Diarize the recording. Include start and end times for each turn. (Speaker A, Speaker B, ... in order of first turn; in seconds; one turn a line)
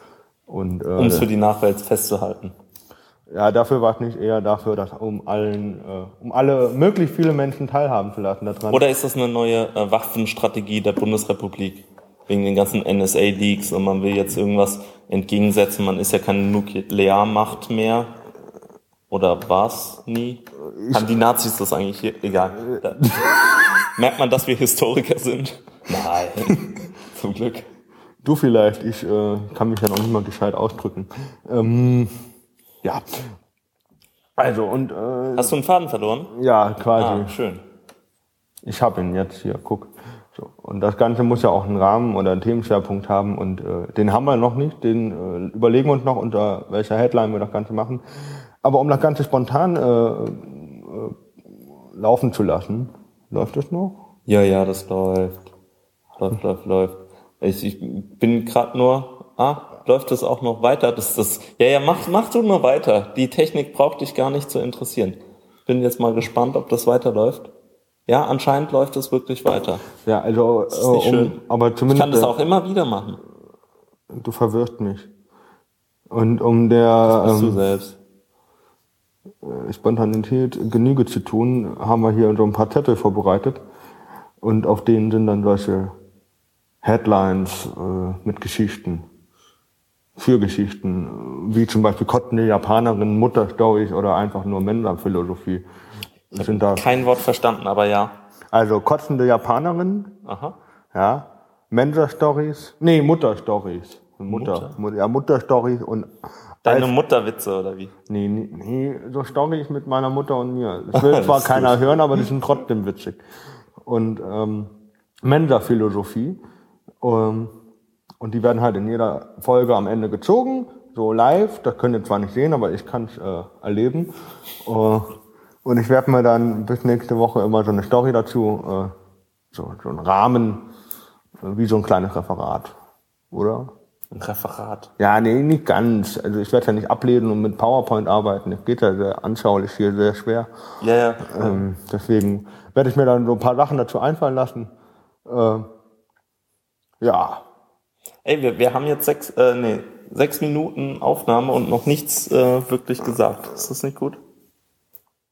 Speaker A: 0.5-1.3
Speaker B: 1.0-2.5
Speaker A: 3.3-8.8
Speaker B: 8.7-18.1
Speaker B: 19.1-23.2
Speaker A: 20.8-21.0
Speaker A: 22.7-23.6
Speaker B: 23.8-27.6
Speaker A: 28.2-32.1
Speaker A: 34.4-35.5
Speaker B: 35.4-36.3
Speaker A: 36.3-37.3
Speaker B: 36.9-37.6
Speaker A: 38.6-48.0
Speaker A: 48.6-51.1
Speaker A: 51.9-54.0
Speaker B: 54.3-55.4
Speaker B: 56.2-67.5
Speaker B: 68.1-69.8
Speaker A: 70.0-72.3
Speaker B: 70.7-71.4
Speaker B: 71.9-73.2
Speaker A: 74.1-75.1
Speaker A: 76.1-77.6
Speaker B: 77.0-78.0
Speaker A: 79.4-83.6
Speaker A: 84.4-85.9
Speaker A: 86.8-89.0
Speaker A: 90.2-95.7
Speaker A: 96.3-96.9
Speaker B: 96.4-98.1
Speaker A: 98.5-100.2
Speaker B: 100.2-100.5
Speaker A: 100.9-106.1
Speaker B: 104.3-104.8
Speaker A: 106.6-106.9
Speaker B: 106.6-107.9
Speaker A: 108.1-113.2
Speaker B: 110.9-111.9
Speaker A: 113.8-114.7
Speaker A: 115.2-116.4
Speaker A: 117.0-117.5
Speaker A: 118.2-124.1
Speaker A: 124.6-125.1
Speaker A: 125.6-128.9
Speaker A: 129.5-130.6
Speaker A: 131.4-132.7
Speaker A: 133.3-133.7
Speaker B: 134.1-134.9
Speaker A: 135.0-140.5
Speaker B: 140.8-141.6
Speaker A: 141.2-144.7
Speaker A: 145.2-145.7
Speaker A: 147.0-147.4
Speaker B: 148.2-154.2